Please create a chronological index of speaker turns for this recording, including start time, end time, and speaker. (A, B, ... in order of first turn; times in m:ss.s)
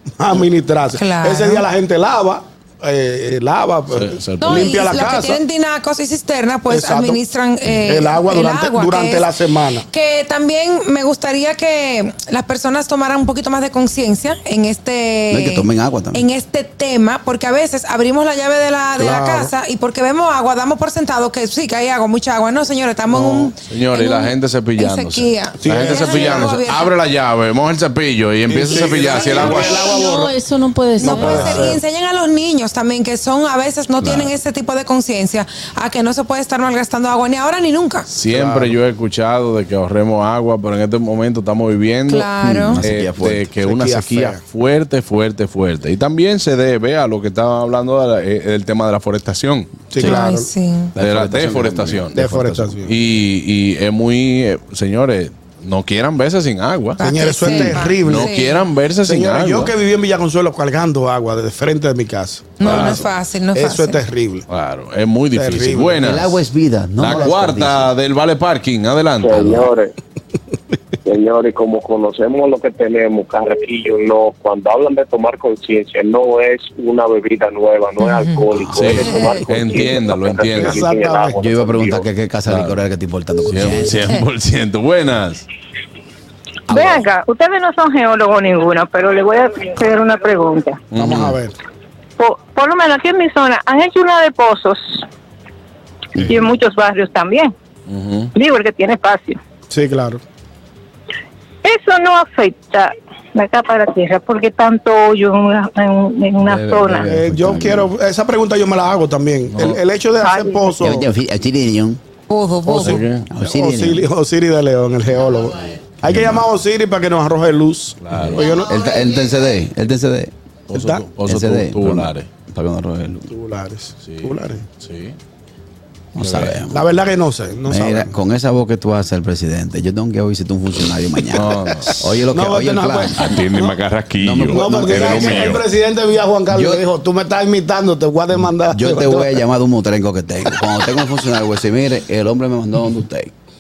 0:00.2-0:05.4 A
0:01.0-0:01.6 B
0:03.9-0:04.8 C
0:04.4-0:09.3 B
0:06.7-0:07.2 A
0:07.8-0:09.9 A
0:09.9-0:26.9 B
0:15.3-0:16.2 D
0:19.0-0:19.5 A
0:23.6-0:29.8 C
0:25.6-0:26.5 A
0:28.5-0:30.4 A
0:28.8-0:30.2 B
0:29.6-0:31.5 E
0:31.0-0:38.1 B
0:31.0-0:31.8 A
0:31.2-0:31.7 C
0:38.1-0:42.3 C
0:38.3-0:38.7 A
0:42.1-0:42.8 B
0:42.4-0:43.5 D
0:42.8-0:49.8 C
0:43.6-0:44.4 A
0:49.9-0:50.5 A
0:50.0-0:50.9 B
0:50.9-0:52.9 D
0:51.0-0:52.3 C
0:52.2-0:52.9 A
0:52.8-0:59.7 C
0:57.0-0:58.6 B
0:57.0-0:58.3 A
0:59.0-1:04.4 A
1:02.6-1:04.0 B
1:02.6-1:03.0 C
1:04.5-1:06.4 C
1:05.4-1:06.2 A
1:06.0-1:07.9 D
1:07.0-1:09.7 C
1:09.2-1:09.9 F
1:11.0-1:22.1 F
1:18.0-1:18.4 B
1:18.5-1:19.5 D
1:18.7-1:20.8 C
1:20.5-1:21.4 A
1:21.4-1:24.1 D
1:22.5-1:22.8 C
1:23.5-1:25.4 C
1:26.7-1:27.1 D
1:26.7-1:30.8 G
1:30.9-1:31.4 C
1:31.0-1:31.5 A
1:32.2-1:35.0 G
1:36.2-1:37.5 G
1:37.9-1:38.3 C
1:38.4-1:39.4 G
1:39.7-1:40.2 A
1:41.6-1:47.1 G
1:46.4-1:47.9 D
1:47.1-1:51.1 A
1:49.5-1:49.8 C
1:50.2-1:50.7 G
1:50.8-1:52.0 D
1:52.3-1:53.0 B
1:52.7-1:53.3 C
1:53.3-1:54.0 D
1:53.4-1:58.8 A
1:58.0-1:58.5 C
1:58.1-2:00.3 D
2:00.7-2:02.3 C
2:00.7-2:01.0 A
2:01.2-2:03.3 D
2:03.3-2:04.6 A
2:04.0-2:05.2 C
2:06.2-2:06.9 D
2:06.2-2:06.6 C
2:06.6-2:08.1 A
2:07.7-2:13.5 D
2:11.3-2:12.0 C
2:12.2-2:13.8 A
2:13.2-2:15.6 C
2:14.2-2:15.6 D
2:14.5-2:19.4 A
2:16.5-2:16.8 D
2:18.7-2:23.3 D